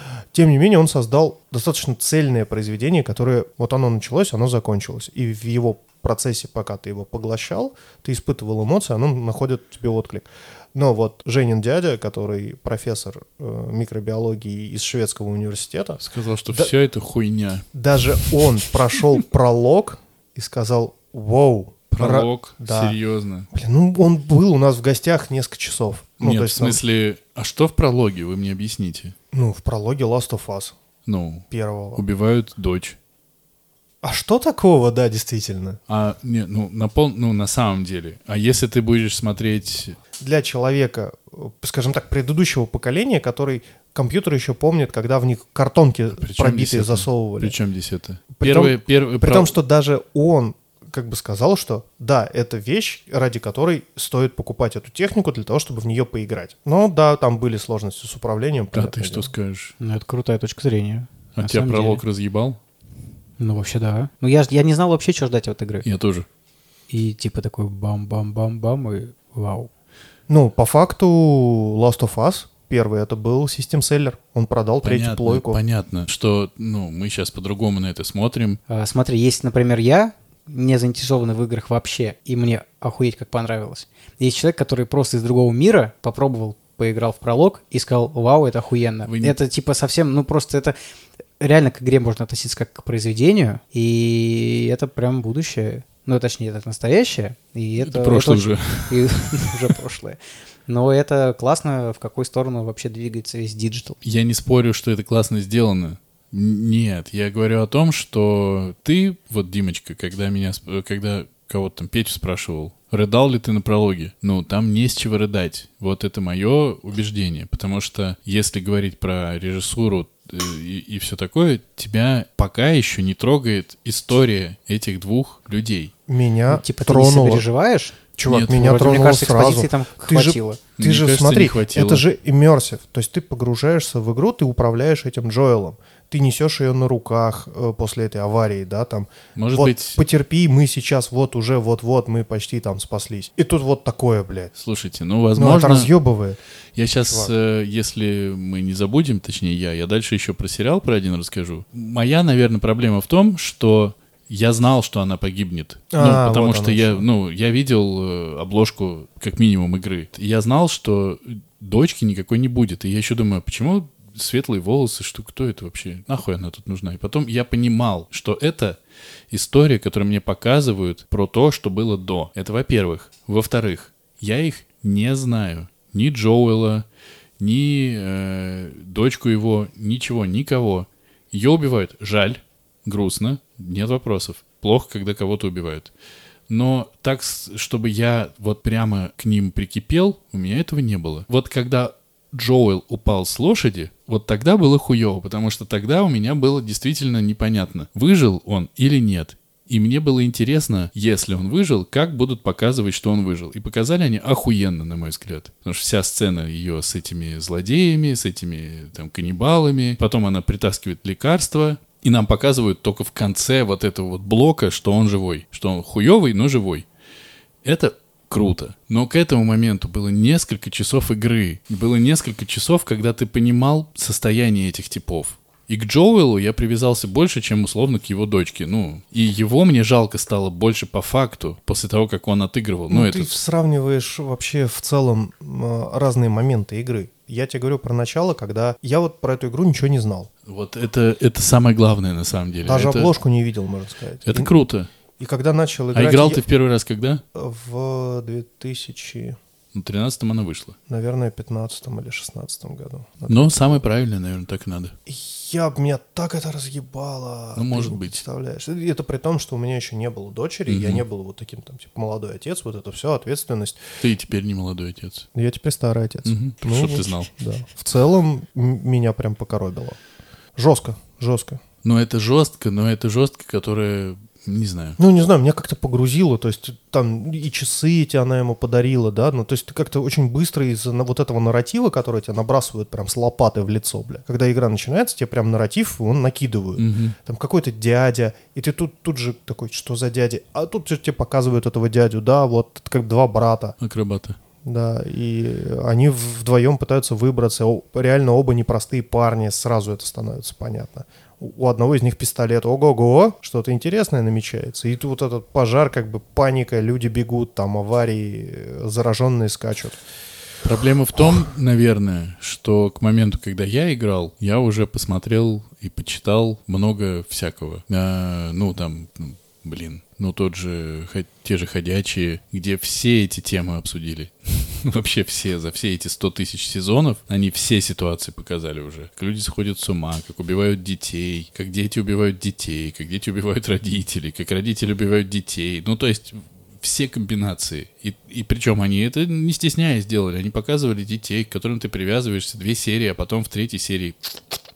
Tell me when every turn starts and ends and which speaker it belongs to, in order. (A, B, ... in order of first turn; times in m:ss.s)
0:00.3-0:16.7 A
0:16.0-0:18.4 B
0:17.7-0:23.0 A
0:21.9-0:23.5 B
0:23.5-0:26.8 A
0:26.2-0:29.2 B
0:29.3-0:30.8 A
0:31.1-0:33.0 B
0:31.5-0:32.0 A
0:34.0-0:35.8 A
0:35.9-0:40.0 B
0:40.2-0:47.6 A
0:46.2-0:49.6 B
0:48.4-0:59.3 A
0:58.7-0:59.7 B
0:59.8-1:02.0 C
1:01.4-1:02.6 B
1:03.4-1:05.9 C
1:05.8-1:06.3 B
1:06.9-1:09.7 C
1:10.3-1:15.6 A
1:14.8-1:18.6 B
1:18.7-1:30.8 C
1:29.1-1:29.4 B
1:31.4-1:44.0 C
1:37.8-1:39.7 B
1:44.0-2:05.9 B
2:06.1-2:07.5 A
2:06.5-2:10.6 C
2:08.2-2:24.5 A
2:08.3-2:08.7 B
2:10.8-2:12.0 B
2:19.4-2:20.0 B
2:24.6-2:25.9 B
2:25.4-2:26.4 A
2:26.8-2:48.8 B
2:27.0-2:27.3 A
2:35.9-2:37.0 A
2:49.3-2:56.8 B
2:57.4-3:05.9 B
3:06.5-3:36.9 B
3:37.6-3:53.3 B
3:52.9-4:00.3 A
4:00.5-4:03.1 B
4:02.6-4:04.5 A
4:04.3-4:04.9 B
4:05.2-4:06.4 A
4:05.9-4:07.2 B
4:07.4-4:09.4 A
4:09.7-4:10.8 B
4:10.9-4:13.8 A
4:13.3-4:14.9 B
4:15.1-4:23.8 A
4:17.6-4:18.2 B
4:20.7-4:21.0 B
4:24.0-4:25.3 B
4:25.4-4:30.0 A
4:26.2-4:27.3 B
4:30.6-4:31.6 A
4:31.8-4:35.0 B
4:35.0-4:53.8 A
4:46.8-4:47.2 B
4:53.8-4:54.4 B
4:54.6-5:10.0 A
5:10.6-5:44.6 B